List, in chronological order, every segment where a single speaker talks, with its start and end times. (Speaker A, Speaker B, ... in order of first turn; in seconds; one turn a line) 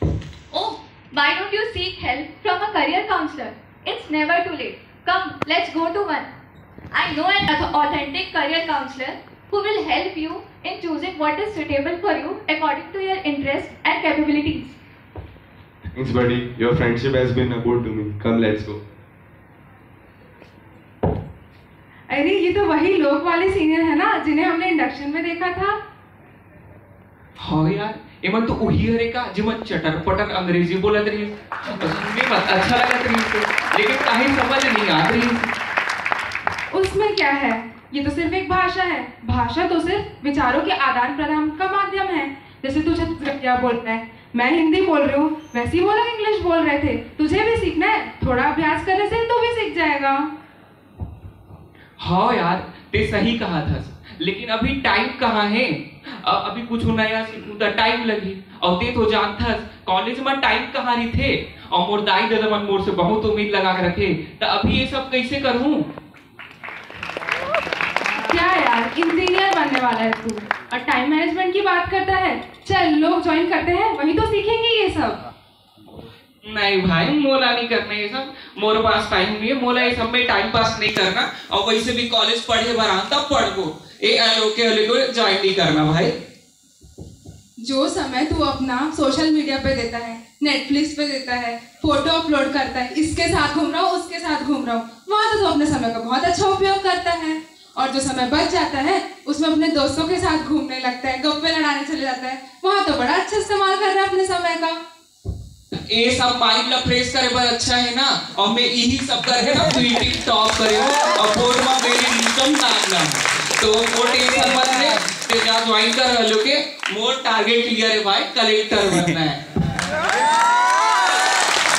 Speaker A: 0.5-6.3
Speaker A: 6.9-14.7
Speaker B: 15.9-18.8
Speaker C: 22.1-25.8
Speaker D: 27.4-35.5
Speaker C: 36.7-50.3
Speaker D: 52.0-65.8
Speaker C: 68.3-75.2
Speaker D: 76.4-86.1
Speaker C: 87.6-104.8
Speaker D: 105.7-119.4